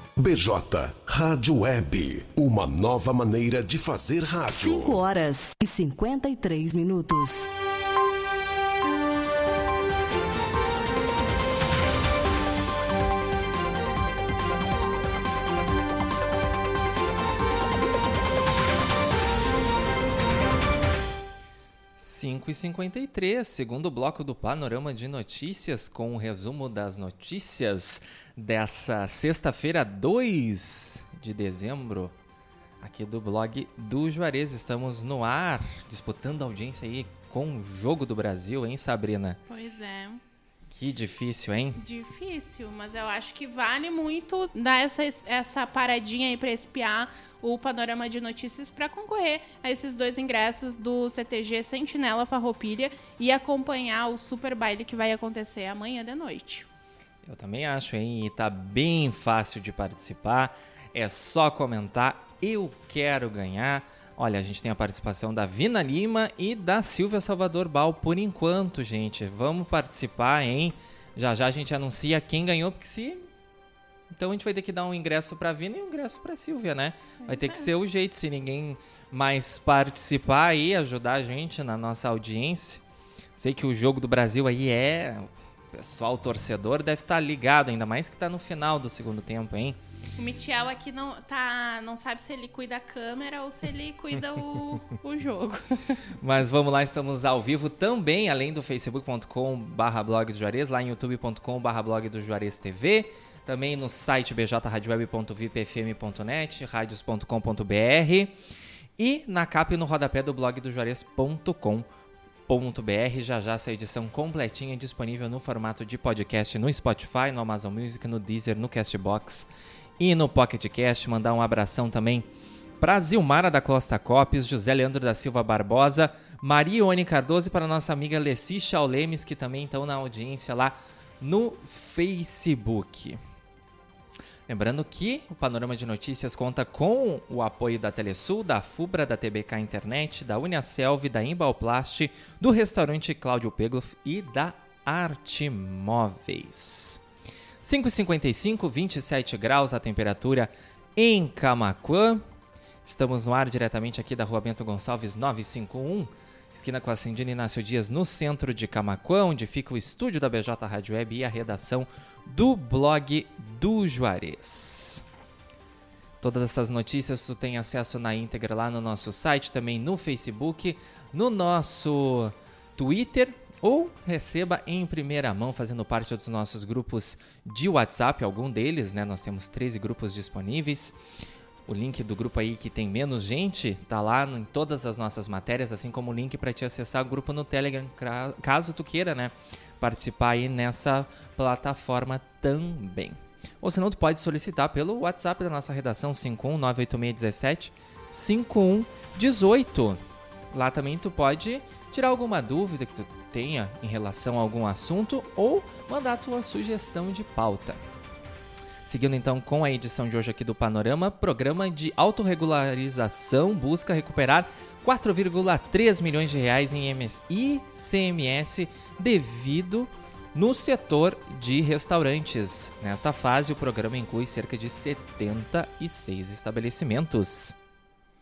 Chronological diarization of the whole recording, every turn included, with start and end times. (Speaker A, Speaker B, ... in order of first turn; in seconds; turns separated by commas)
Speaker A: 0.2-5.0, Speaker B: 4.5-7.5, Speaker C: 22.0-32.1, Speaker C: 32.8-39.4, Speaker D: 39.5-40.2, Speaker C: 40.7-41.8, Speaker D: 41.8-56.7, Speaker C: 57.2-73.2, Speaker C: 74.1-82.8, Speaker D: 77.2-77.6, Speaker C: 83.3-89.8, Speaker D: 90.2-96.0, Speaker C: 96.2-108.3, Speaker C: 109.0-111.8, Speaker C: 112.5-119.5, Speaker C: 120.0-122.3, Speaker C: 122.8-133.2, Speaker C: 134.5-147.0, Speaker C: 147.6-152.2, Speaker C: 152.8-165.0, Speaker C: 166.2-180.9, Speaker C: 181.7-200.0, Speaker C: 200.5-207.8, Speaker C: 208.8-227.5